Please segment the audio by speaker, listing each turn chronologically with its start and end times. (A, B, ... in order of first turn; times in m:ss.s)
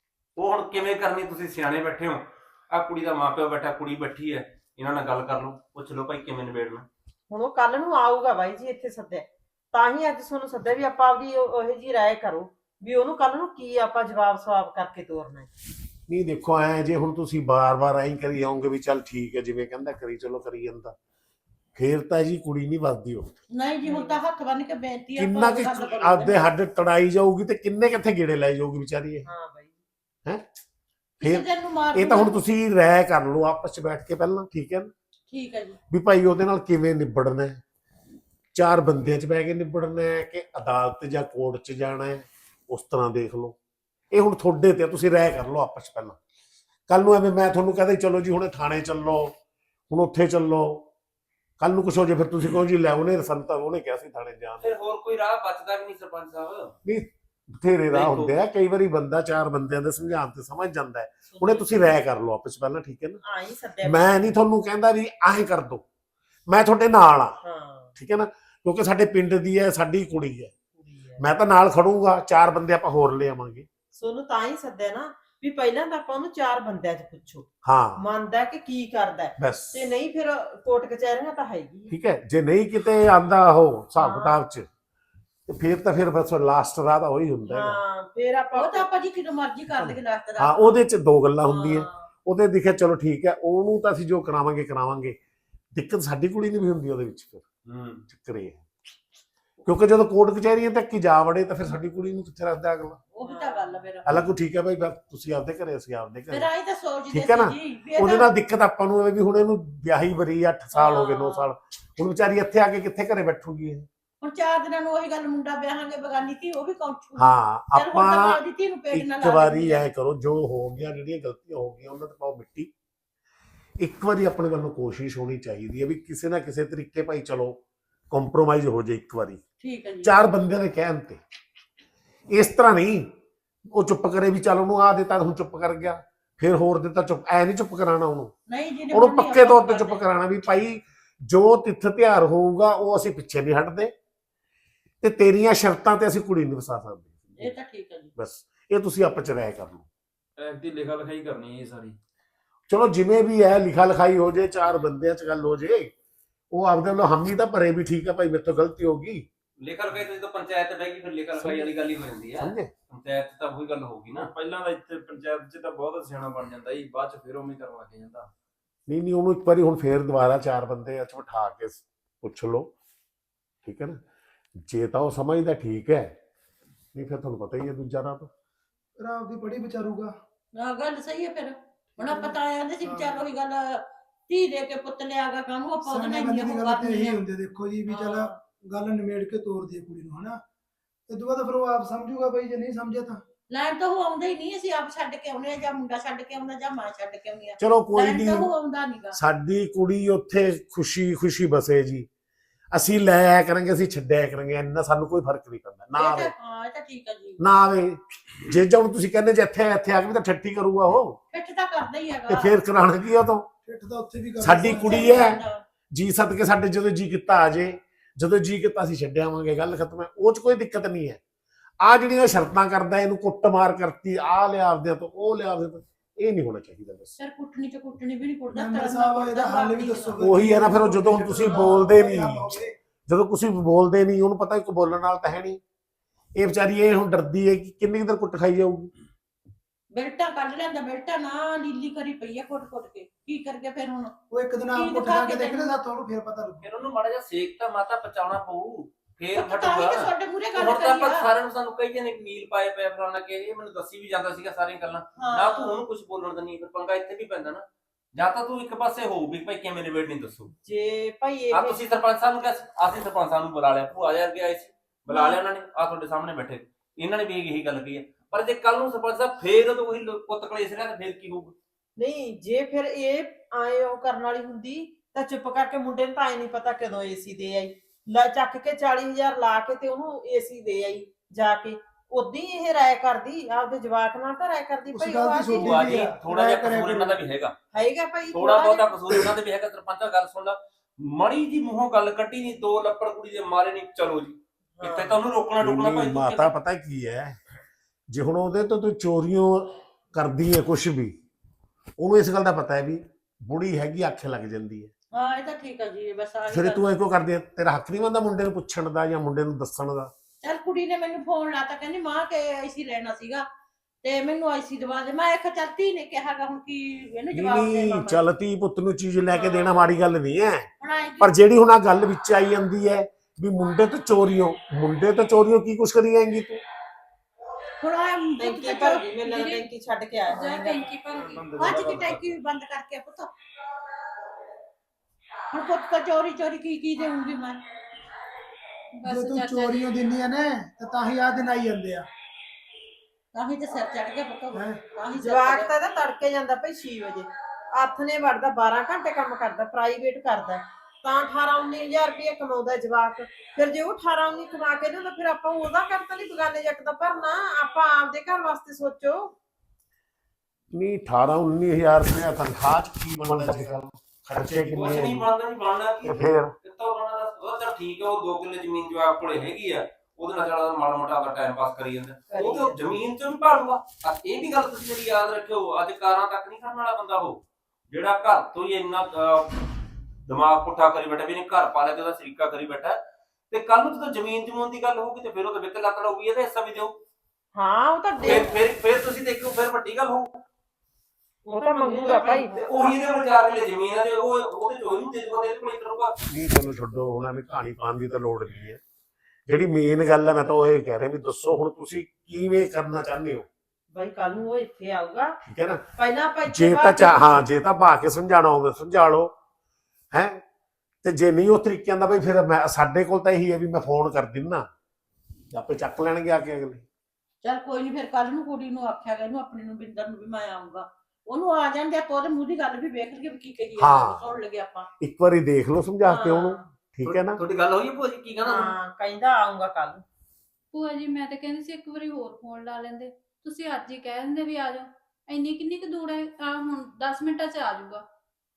0:00.4-0:06.9 A
0:07.3-0:15.5 B
0:16.1-0:21.0 C
0:21.8-0:23.3 C
0:23.5-0:26.5 D
0:23.8-0:24.2 B
0:25.2-0:29.3 C
0:29.2-0:29.8 B
0:31.2-0:32.4 D
0:31.2-0:34.9 C
0:35.3-0:35.8 D
0:35.9-0:37.6 C
0:38.5-0:43.6 C
0:44.1-0:46.2 C
0:46.9-0:49.3 C
0:49.9-0:50.9 C
0:51.6-0:54.8 C
0:54.6-0:56.8 A
0:56.8-1:03.2 C
0:57.9-0:58.4 A
1:01.3-1:01.8 B
1:03.2-1:04.3 B
1:03.8-1:05.8 C
1:06.5-1:07.4 C
1:07.4-1:07.9 B
1:08.0-1:10.5 C
1:10.8-1:11.3 B
1:11.2-1:13.7 C
1:13.9-1:21.9 B
1:17.6-1:18.0 C
1:19.4-1:19.9 C
1:21.9-1:24.7 C
1:24.0-1:24.4 B
1:25.5-1:27.8 C
1:27.5-1:28.9 B
1:28.6-1:30.8 D
1:29.8-1:35.2 C
1:31.5-1:31.8 D
1:31.6-1:31.8 B
1:35.7-1:37.4 C
1:37.7-1:38.0 A
1:38.1-1:38.6 C
1:39.6-1:43.0 C
1:43.1-1:44.1 D
1:43.2-1:43.8 B
1:44.1-1:46.5 C
1:46.3-1:48.3 D
1:47.1-1:53.9 C
1:50.8-1:51.4 B
1:54.2-1:59.8 D
1:57.2-1:58.4 C
1:58.9-2:02.7 C
2:03.8-2:09.4 C
2:09.6-2:10.2 D
2:10.0-2:11.2 C
2:12.3-2:13.1 C
2:13.7-2:18.3 C
2:18.5-2:20.0 D
2:18.9-2:23.9 C
2:25.0-2:27.5 C
2:27.4-2:28.1 D
2:28.2-2:29.9 C
2:30.4-2:32.0 E
2:32.7-2:35.9 C
2:36.5-2:39.3 C
2:39.6-2:44.3 A
2:41.4-2:41.7 C
2:42.4-2:42.7 C
2:44.1-2:48.3 E
2:48.9-2:52.7 C
2:53.6-2:54.0 C
2:54.6-2:56.2 C
2:56.9-2:58.3 C
2:59.0-3:00.1 F
3:00.6-3:07.2 D
3:02.0-3:03.2 F
3:05.8-3:10.4 F
3:07.9-3:08.4 D
3:11.1-3:13.2 F
3:13.5-3:19.2 D
3:17.6-3:18.5 C
3:19.1-3:22.1 C
3:22.7-3:26.3 C
3:26.0-3:27.4 D
3:27.4-3:31.2 C
3:31.3-3:32.6 D
3:32.3-3:33.5 C
3:33.7-3:35.3 F
3:34.4-3:35.4 C
3:34.5-3:35.6 D
3:35.9-3:41.2 C
3:41.8-3:47.2 C
3:47.2-3:50.2 D
3:48.5-3:52.7 F
3:50.2-3:55.6 C
3:56.4-3:58.9 C
3:59.9-4:04.2 D
4:04.3-4:06.7 F
4:04.7-4:05.8 D
4:06.6-4:20.5 A
4:09.3-4:11.3 D
4:15.2-4:15.8 D
4:20.6-4:22.0 B
4:21.5-4:31.5 A
4:25.1-4:25.4 B
4:32.0-4:46.1 B
4:44.9-4:47.2 F
4:45.5-4:47.5 A
4:47.7-4:49.0 B
4:48.3-4:56.5 A
4:54.8-4:55.2 B
4:55.6-4:57.4 C
4:58.1-5:01.2 C
5:02.0-5:04.9 C
5:05.1-5:06.9 D
5:06.5-5:10.1 C
5:10.4-5:13.4 D
5:14.0-5:18.2 D
5:17.3-5:20.7 C
5:19.3-5:19.8 B
5:20.8-5:21.4 D
5:21.2-5:26.6 C
5:27.8-5:29.1 D
5:28.4-5:31.2 B
5:29.2-5:29.7 G
5:30.3-5:31.5 G
5:31.4-5:32.1 E
5:31.6-5:33.3 D
5:31.6-5:32.3 A
5:35.5-5:37.6 D
5:39.0-5:40.0 G
5:39.1-5:42.1 F
5:43.3-5:45.7 D
5:44.5-5:44.8 F
5:45.2-5:59.3 B
6:00.7-6:05.3 C
6:04.7-6:19.6 A
6:06.0-6:06.5 C
6:12.3-6:12.8 B
6:20.3-6:27.0 A
6:27.6-6:28.5 B
6:28.2-6:30.3 A
6:31.5-6:32.7 B
6:31.5-6:32.6 D
6:32.6-6:36.2 A
6:36.3-6:38.8 C
6:39.5-6:43.5 C
6:43.9-6:45.4 B
6:45.5-6:45.8 C
6:46.0-6:47.4 B
6:46.5-6:49.3 C
6:50.1-6:50.4 C
6:51.0-6:54.7 C
6:55.5-6:56.8 C
6:57.4-7:04.9 D
7:03.8-7:04.3 C
7:05.0-7:07.4 C
7:06.0-7:06.7 B
7:07.0-7:08.8 A
7:08.4-7:10.0 B
7:10.7-7:18.0 G